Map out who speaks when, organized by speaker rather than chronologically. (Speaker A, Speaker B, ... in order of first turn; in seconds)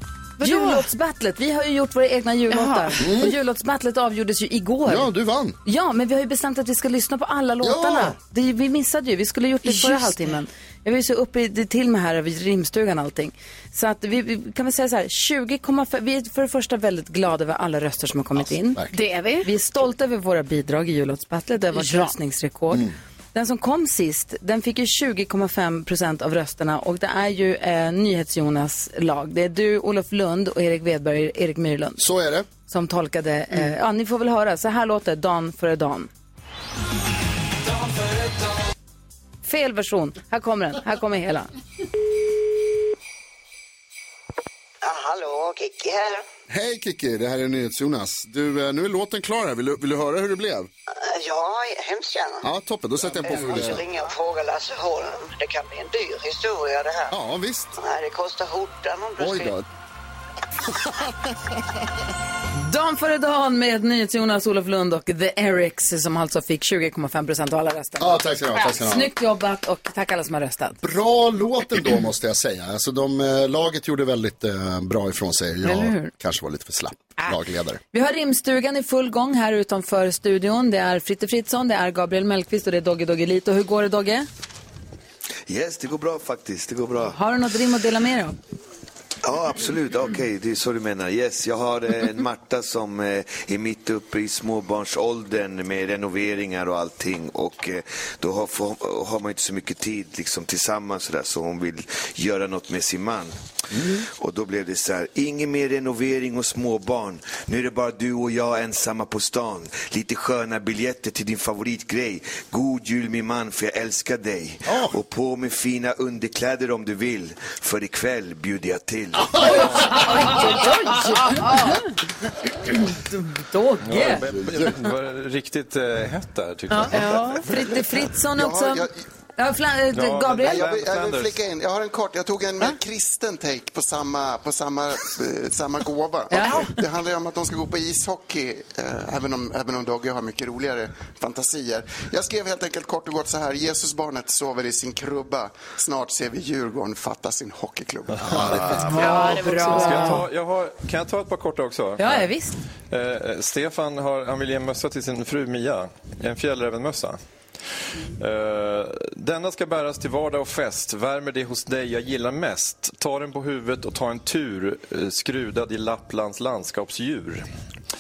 Speaker A: 0.4-0.9, 2.5-3.0, 9.6-10.3, 18.9-19.5, 21.7-22.1, 120.3-121.8, 127.0-127.4, 148.8-150.2
Speaker B: 0.4-5.1, 5.6-18.9, 19.4-32.0, 32.7-36.1, 39.4-41.5, 62.6-70.8, 75.6-76.1, 77.9-84.3, 87.1-88.4, 119.4-121.9, 122.6-124.2, 126.7-130.6, 136.3-136.7, 148.5-150.2, 152.0-152.6
Speaker C: 3.0-3.3, 4.9-5.6, 7.6-8.2, 18.4-18.9, 32.0-32.5, 46.5-50.7, 52.4-53.8, 57.1-57.8, 59.2-59.6, 68.0-69.1, 70.8-77.8, 103.7-104.0, 114.7-115.0, 119.2-120.5, 124.2-124.8, 148.3-148.7
Speaker D: 44.8-46.3, 50.9-52.5, 53.2-57.1, 57.8-59.5
Speaker E: 85.5-87.2, 89.2-119.5
Speaker F: 123.8-127.1, 129.9-131.3, 148.3-152.3, 152.9-157.2, 158.2-167.5
Speaker G: 127.5-127.8, 128.3-129.0, 130.5-148.8